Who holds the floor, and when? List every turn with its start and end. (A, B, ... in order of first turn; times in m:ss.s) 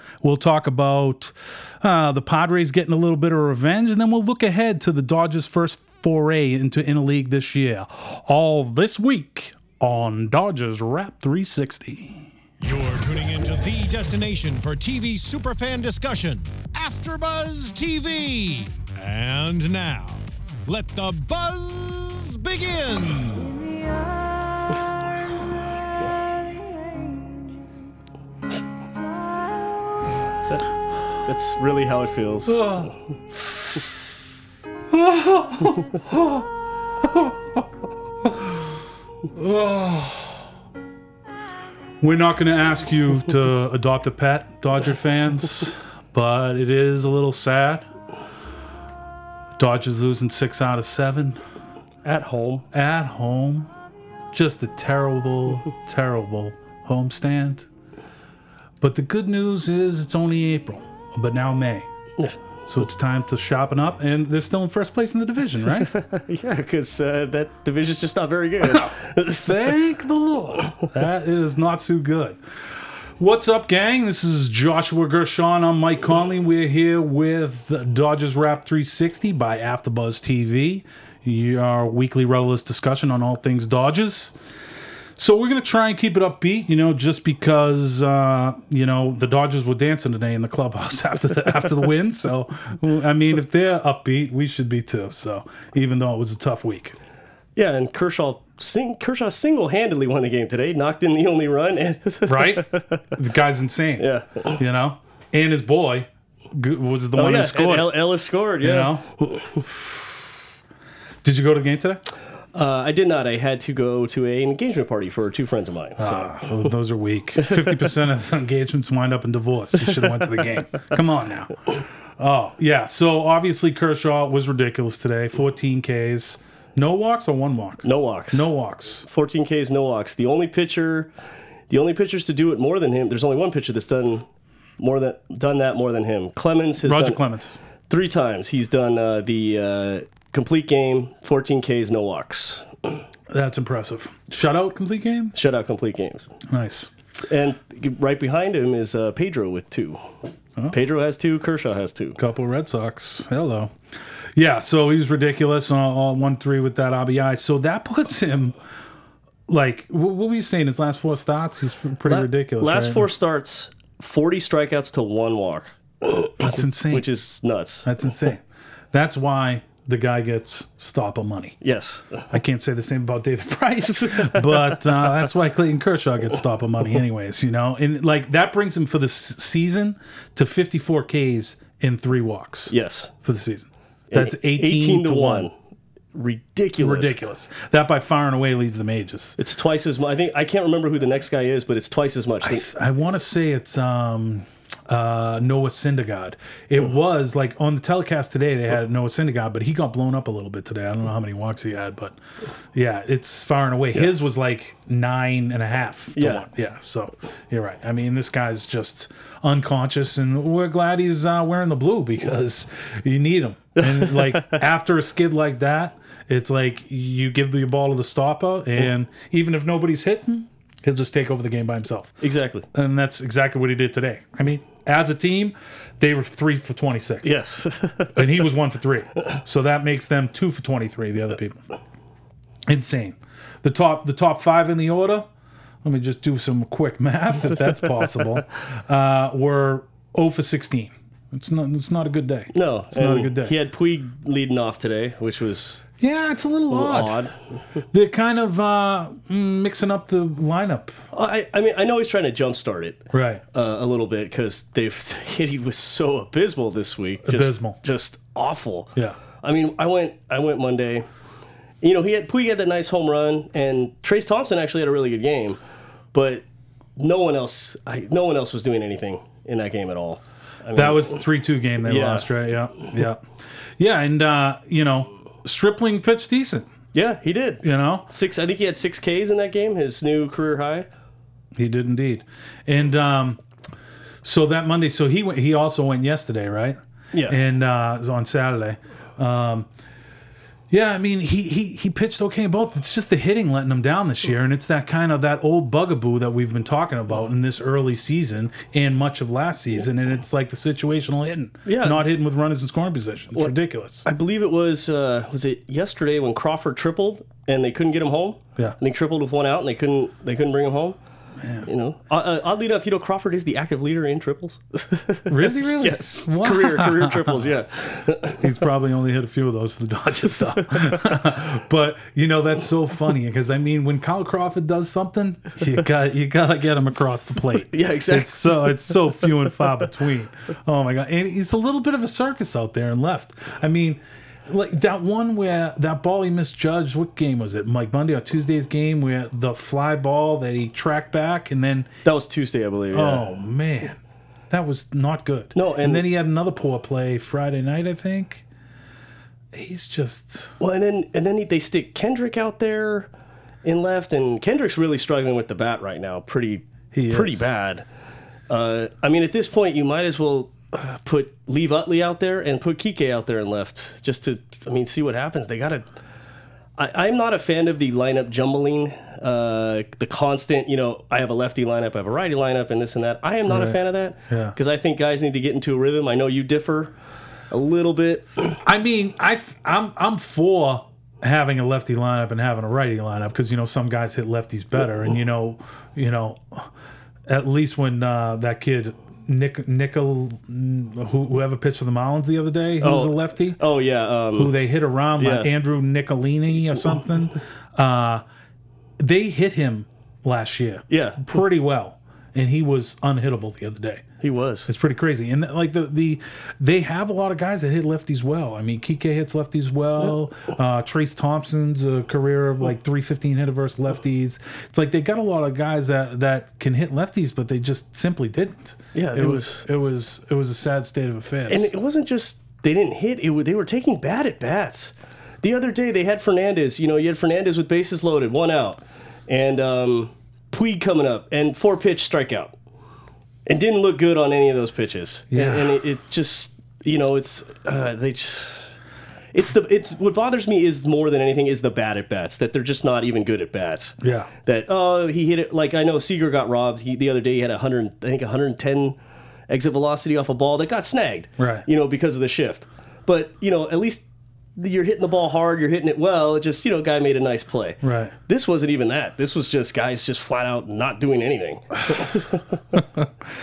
0:00.2-0:12.3 A
0:12.6-0:23.7 B
0:31.1-0:32.8 C
0:32.5-0:33.8 A
0:34.9-0:36.4 A
0:37.0-0:37.6 A
0:38.2-0:38.5 A
0:39.3-0:40.4 A
0:42.0-0:47.8 A
0:49.6-0:51.4 A
0:52.0-0:52.7 C
0:52.7-0:53.7 A
0:54.3-0:57.7 A
0:58.8-1:01.9 A
1:02.7-1:05.9 A
1:05.7-1:09.7 C
1:08.6-1:12.4 A
1:13.2-1:24.3 A
1:25.2-1:37.0 A
1:37.6-1:43.0 C
1:42.2-1:48.0 A
1:44.0-1:44.6 C
1:47.2-1:49.0 C
1:48.6-1:50.2 A
1:51.2-1:52.0 A
1:52.5-1:56.5 C
1:56.0-2:01.7 A
1:57.4-1:57.7 C
2:02.2-2:09.1 A
2:07.8-2:08.5 C
2:09.0-2:11.1 C
2:11.7-2:14.2 C
2:14.8-2:17.2 C
2:16.8-2:17.5 A
2:17.9-2:23.0 C
2:23.3-2:25.3 A
2:25.3-2:26.2 C
2:26.5-2:26.9 A
2:27.3-2:30.0 C
2:30.7-2:32.2 C
2:32.2-2:33.7 A
2:34.3-2:38.6 A
2:39.5-2:43.1 A
2:42.1-2:47.9 C
2:46.4-2:47.1 A
2:47.8-2:51.6 A
2:51.6-2:52.2 C
2:52.3-3:05.5 A
2:54.1-2:54.7 C
3:02.7-3:03.1 C
3:04.1-3:05.5 C
3:06.1-3:07.2 C
3:06.8-3:09.4 A
3:09.4-3:12.7 C
3:12.4-3:22.2 A
3:22.7-3:42.1 A
3:26.2-3:26.4 C
3:33.8-3:34.6 C
3:42.2-3:42.7 C
3:42.7-3:47.3 A
3:47.2-3:48.2 C
3:48.2-3:51.6 A
3:52.7-3:55.3 A
3:55.8-4:03.5 A
4:02.5-4:05.8 C
4:06.0-4:07.2 A
4:06.7-4:07.4 C
4:07.9-4:11.0 A
4:11.1-4:21.1 C
4:13.1-4:13.4 A
4:17.2-4:17.8 A
4:21.8-4:25.6 C
4:26.1-4:26.4 C
4:27.0-4:31.2 C
4:30.8-4:33.2 A
4:31.8-4:32.3 C
4:33.8-4:36.7 A
4:36.9-4:40.9 C
4:37.6-4:38.1 A
4:41.6-4:43.4 A
4:44.2-4:49.7 A
4:47.1-4:47.4 C
4:50.7-5:04.1 A
5:01.6-5:02.1 C
5:04.0-5:11.0 C
5:11.4-5:11.7 A
5:11.6-5:18.5 C
5:15.3-5:17.5 A
5:18.3-5:41.9 A
5:20.7-5:21.0 C
5:27.7-5:28.8 C
5:42.0-5:43.2 C
5:42.9-5:44.0 A
5:44.5-5:48.4 A
5:45.6-5:46.1 C
5:49.5-5:50.6 A
5:50.6-5:53.1 C
5:53.6-5:57.9 C
5:56.9-5:57.5 A
5:58.5-6:05.9 C
6:06.8-6:16.9 C
6:13.5-6:14.6 A
6:17.5-6:18.5 C
6:18.6-6:26.7 A
6:27.3-6:33.6 A
6:32.8-6:34.6 C
6:34.4-6:38.2 A
6:35.2-6:35.5 C
6:39.0-6:44.0 A
6:40.9-6:41.3 C
6:44.2-6:44.7 C
6:44.6-7:01.7 A
6:58.9-6:59.6 C
7:01.5-7:12.6 C
7:13.4-7:18.8 C
7:15.3-7:15.8 A
7:19.3-7:29.0 C
7:24.0-7:24.3 A
7:29.5-7:34.0 C
7:31.4-7:31.6 A
7:34.6-7:42.8 C
7:37.8-7:38.1 A